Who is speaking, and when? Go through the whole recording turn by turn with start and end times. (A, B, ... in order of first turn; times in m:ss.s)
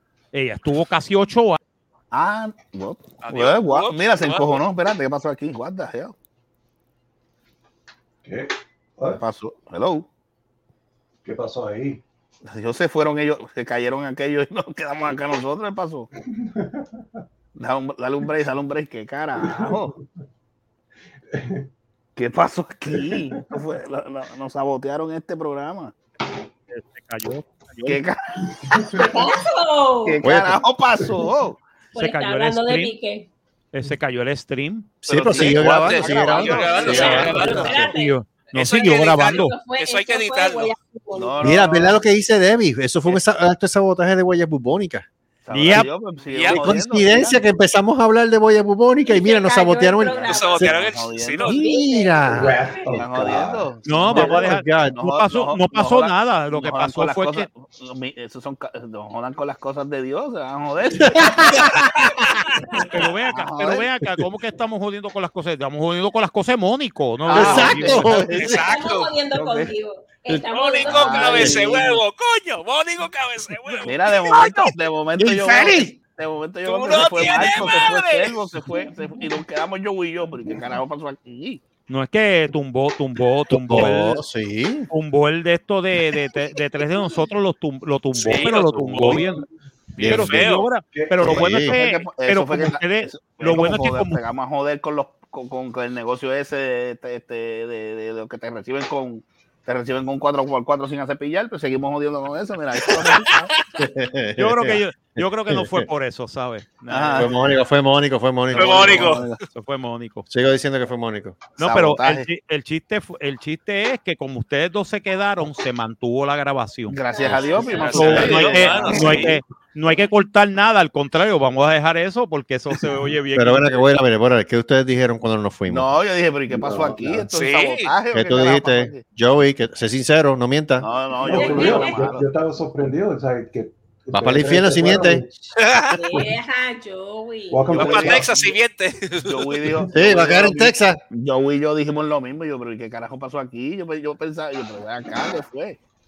0:00.3-0:01.6 A
0:02.1-0:06.1 B
0:03.2-0:04.6 C
0:08.2-0:09.2 D
0:09.1-0:10.1 B
0:11.2-0:12.0 D
0:12.4-0:16.1 B
0:16.3-0:17.0 D
0:17.6-0:19.9 B
0:19.4-0:20.0 D
0:21.3-0:21.7 D
0:22.2-0:25.9 B
0:23.0-0:23.4 D
0:26.7-0:28.0 A
0:27.8-0:28.2 B
0:28.6-0:29.2 D
0:28.9-0:30.2 E
0:30.0-0:31.6 B
0:30.2-0:30.6 F
0:31.9-0:33.3 E
0:32.0-0:32.9 A
0:33.7-0:35.0 A
0:35.0-0:37.9 F
0:35.0-0:37.8 B
0:35.3-0:37.8 C
0:36.7-0:38.2 E
0:37.7-0:39.6 A
0:38.5-0:40.7 C
0:38.7-0:41.5 E
0:41.1-0:42.0 B
0:41.4-0:45.1 F
0:45.4-0:47.4 B
0:45.5-0:45.9 A
0:46.3-0:46.8 C
0:46.5-0:50.8 F
0:49.0-0:50.7 E
0:50.1-0:51.6 B
0:50.3-0:51.6 C
0:51.4-0:52.6 F
0:51.5-0:52.9 E
0:52.3-0:53.7 D
0:52.9-1:01.8 B
0:53.8-0:57.5 A
0:54.0-0:55.0 F
1:01.0-1:02.1 F
1:02.8-1:08.2 A
1:03.2-1:03.9 B
1:07.2-1:08.5 B
1:07.3-1:08.6 F
1:08.3-1:09.1 C
1:08.4-1:11.7 E
1:09.3-1:09.7 B
1:10.5-1:14.7 C
1:10.8-1:12.0 B
1:13.8-1:21.6 B
1:15.2-1:15.9 F
1:16.6-1:18.4 C
1:21.9-1:24.2 A
1:23.5-1:24.9 F
1:24.9-1:29.4 A
1:28.1-1:29.2 C
1:29.0-1:29.3 D
1:30.0-1:34.2 A
1:30.0-1:30.4 F
1:30.0-1:30.7 C
1:30.9-1:31.3 D
1:31.2-1:31.8 F
1:31.6-1:43.5 B
1:42.8-1:43.2 C
1:43.8-1:45.8 F
1:44.4-1:47.3 A
1:46.9-1:47.3 B
1:47.1-1:49.2 F
1:48.5-1:49.4 B
1:48.5-1:49.3 C
1:49.5-1:50.2 A
1:50.3-1:51.4 F
1:51.6-1:57.0 A
1:51.6-1:52.3 B
1:56.9-1:59.4 B
1:57.1-1:58.2 E
1:57.6-1:59.3 C
1:57.9-2:03.8 A
1:58.0-1:58.6 F
2:03.3-2:05.8 F
2:05.7-2:09.0 B
2:06.5-2:07.3 D
2:07.3-2:07.9 C
2:08.1-2:10.9 F
2:10.8-2:12.3 B
2:11.2-2:15.4 D
2:11.3-2:12.0 E
2:14.1-2:15.2 F
2:15.6-2:16.0 C
2:15.9-2:17.8 E
2:17.5-2:18.5 D
2:17.7-2:18.5 B
2:17.7-2:19.6 C
2:19.2-2:25.8 B
2:19.9-2:21.0 F